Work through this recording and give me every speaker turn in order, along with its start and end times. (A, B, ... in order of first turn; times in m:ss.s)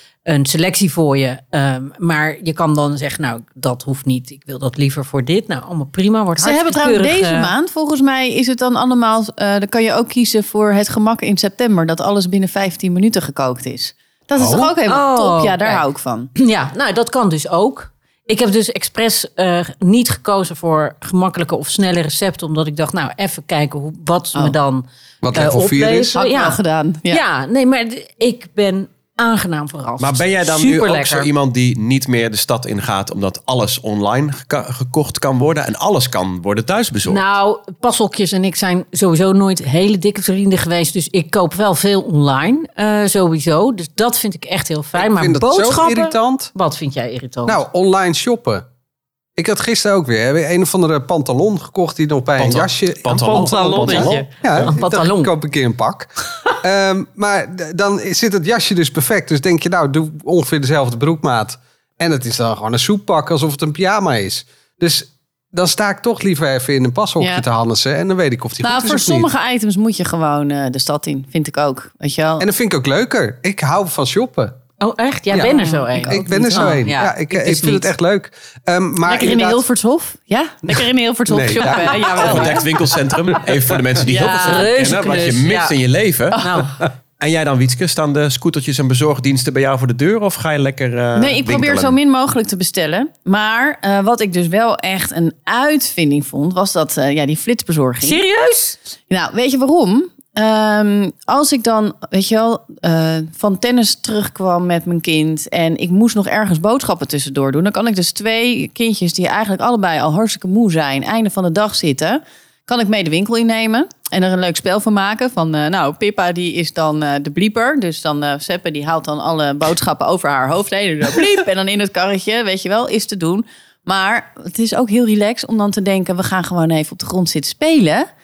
0:00.2-0:07.5 A
0:06.4-0:16.3 B
0:14.4-0:14.7 C
0:14.4-0:15.8 A
0:16.4-0:31.3 A
0:25.2-0:26.1 C
0:26.1-0:27.2 B
0:30.0-0:37.2 D
0:37.1-0:47.6 A
0:45.0-0:46.5 C
0:47.5-0:48.6 C
0:49.4-1:09.3 C
0:52.4-0:54.7 D
0:53.1-0:55.3 A
1:08.6-1:12.5 B
1:12.4-1:14.6 C
1:14.8-1:17.9 A
1:15.3-1:19.6 C
1:15.4-1:16.7 B
1:19.0-1:22.7 B
1:21.3-1:22.4 C
1:21.6-1:22.6 A
1:22.2-1:26.5 D
1:24.0-1:24.7 B
1:24.1-1:25.8 A
1:26.4-1:26.6 B
1:26.4-1:26.7 A
1:27.2-1:32.0 D
1:31.2-1:38.2 B
1:38.0-1:38.8 A
1:39.1-2:08.1 B